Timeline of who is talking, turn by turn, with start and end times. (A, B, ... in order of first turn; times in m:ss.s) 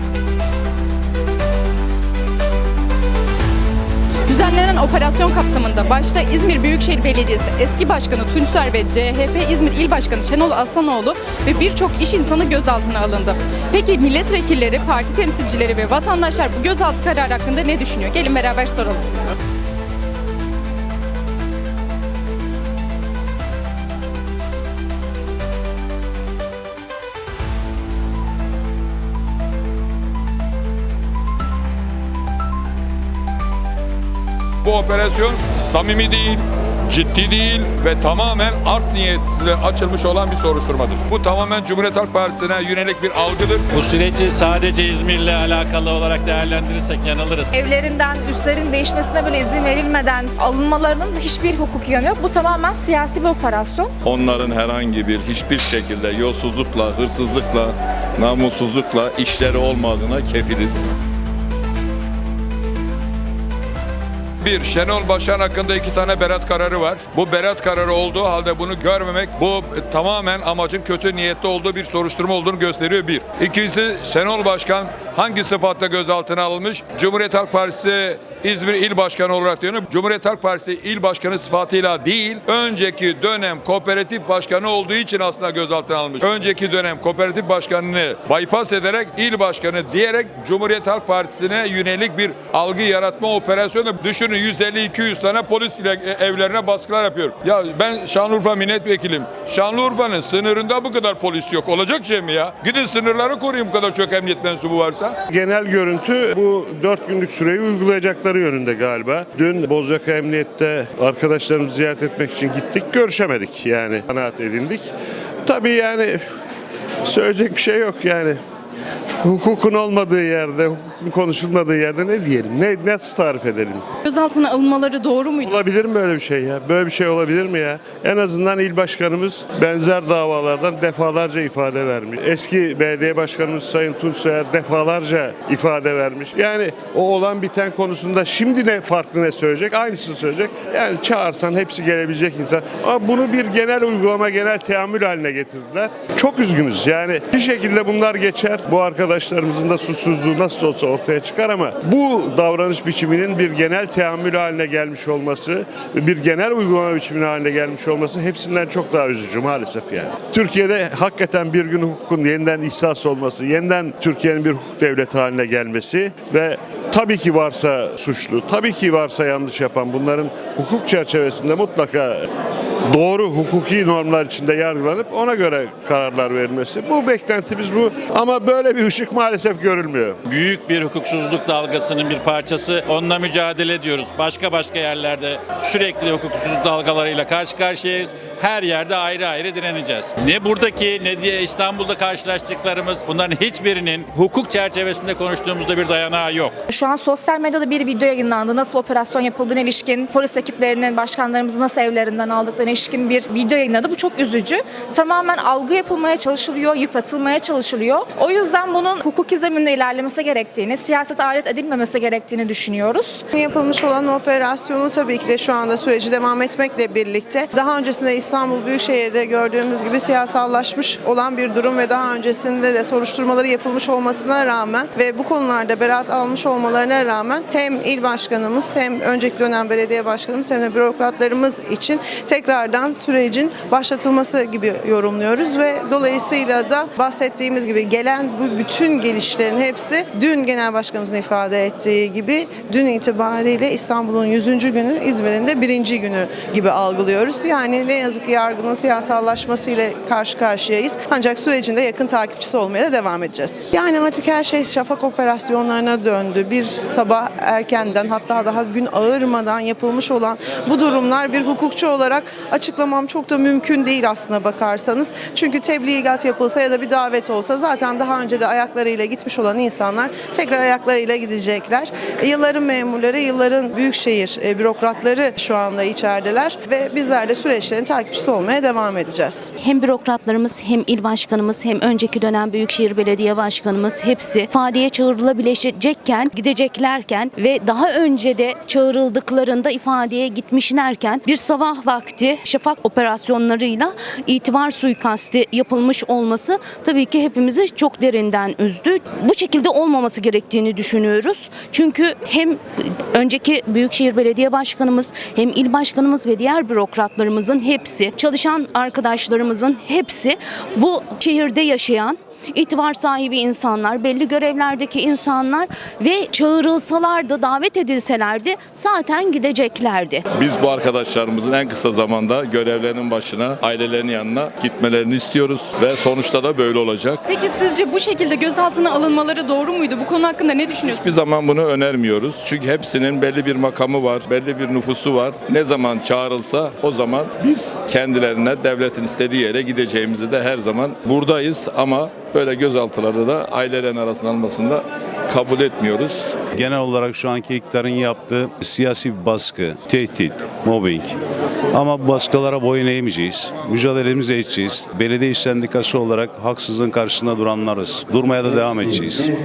0:04.3-0:19.1 A
0:34.6-0:43.7 B
0:43.7-0:47.6 C
0:47.5-0:53.9 D
0:54.0-1:00.9 E
1:04.4-1:45.2 B
1:45.3-1:54.9 F
1:55.4-1:56.2 F
1:57.0-1:58.4 F
1:59.2-2:03.8 F
2:04.0-2:05.6 A
2:05.4-2:52.3 F
2:52.9-3:00.2 F
3:00.2-3:16.6 C
3:16.7-3:33.2 D
3:33.3-4:39.5 G
4:39.6-5:20.2 H
5:20.3-5:27.2 E
5:27.3-5:31.1 A
5:30.8-5:46.4 E
5:46.6-5:51.2 I
5:51.7-5:59.3 I